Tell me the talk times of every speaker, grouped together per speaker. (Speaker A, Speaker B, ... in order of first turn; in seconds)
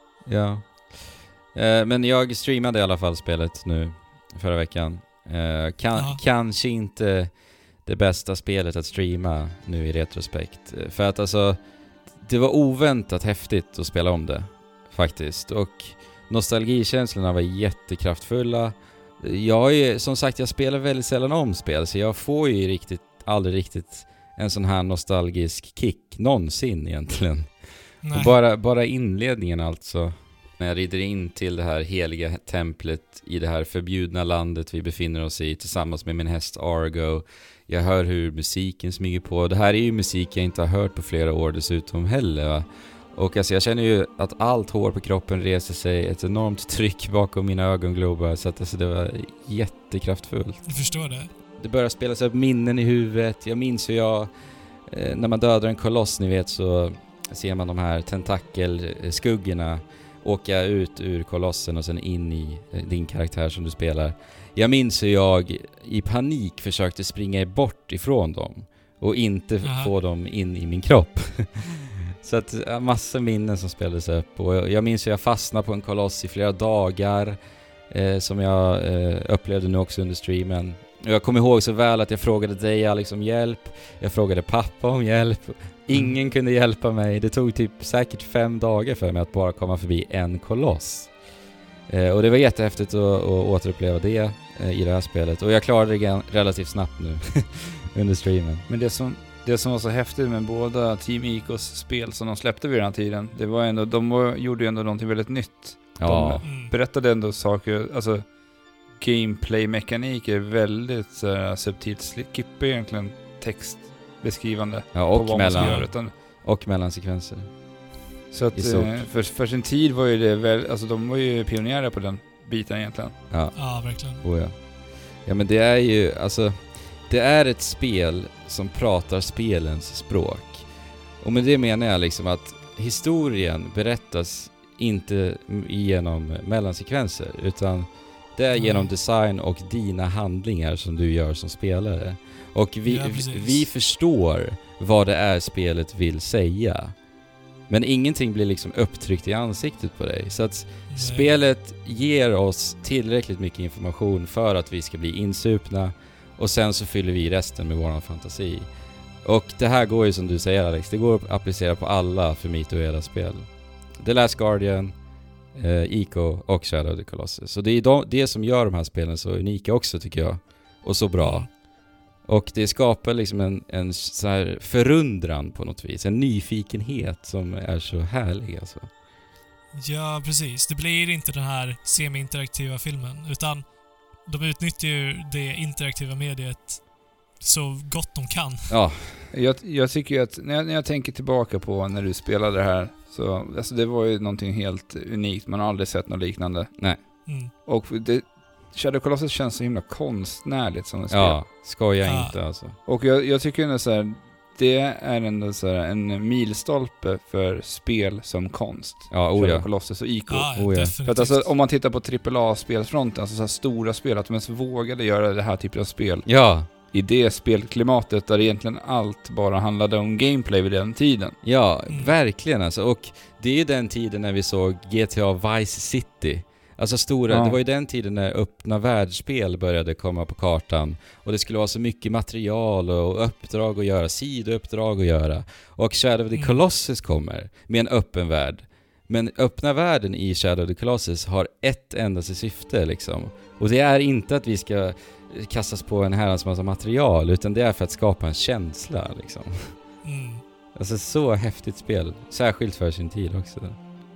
Speaker A: 0.2-50.7, 51.6-54.3, 54.9-77.4, 77.9-91.1, 91.9-98.6, 106.0-106.4, 114.9-117.5, 118.5-119.1, 123.3-130.7, 131.2-146.9, 147.7-158.7, 159.2-164.9, 165.5-171.6, 172.2-178.9, 188.7-189.3, 201.1-202.8, 209.1-209.7, 210.5-210.9, 216.2-216.7, 221.4-249.7, 250.7-253.8
Speaker B: 5.9-6.2, 28.0-28.4, 50.7-51.3, 69.6-69.9, 106.4-106.7, 115.5-115.9, 123.5-124.2, 138.5-138.9, 142.8-143.7, 150.9-151.3, 171.2-171.5, 179.7-188.8, 197.2-197.5, 202.0-202.3, 210.3-211.5, 221.9-222.1, 236.3-236.6, 250.0-250.4
Speaker C: 98.7-108.3, 109.0-116.1, 118.3-123.2, 189.3-197.1, 197.6-201.4, 202.8-221.3, 227.3-227.6